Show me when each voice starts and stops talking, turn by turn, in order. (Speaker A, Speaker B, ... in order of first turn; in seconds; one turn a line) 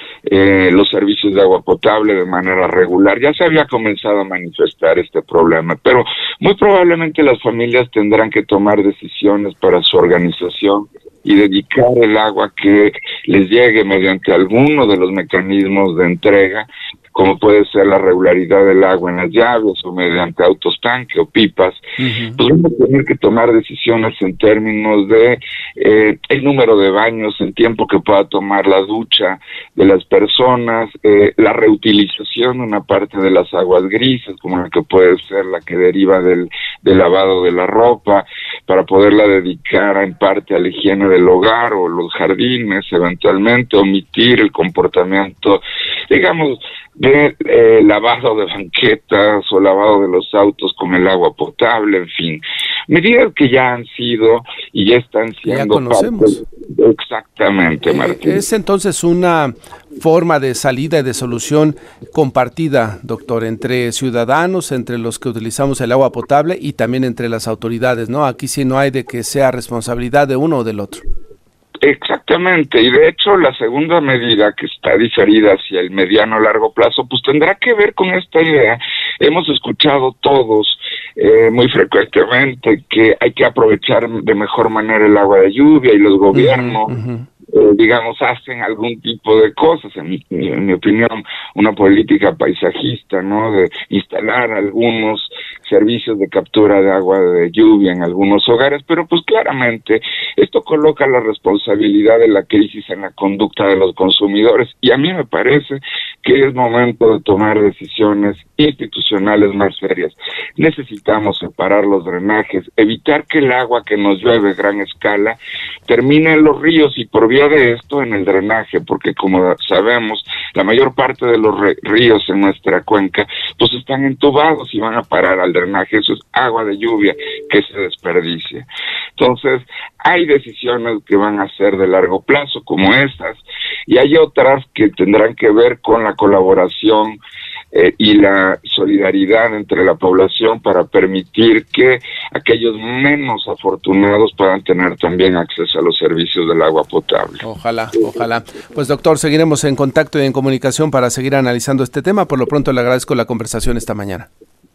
Speaker A: 0.2-21.8
Speaker B: 22.0-22.4
Speaker A: 22.4-58.4
Speaker B: 55.5-56.4
Speaker B: 57.8-71.0
Speaker A: 71.8-86.9
Speaker B: 86.3-87.2
Speaker A: 87.5-137.2
Speaker A: 137.7-147.4
Speaker B: 147.4-154.3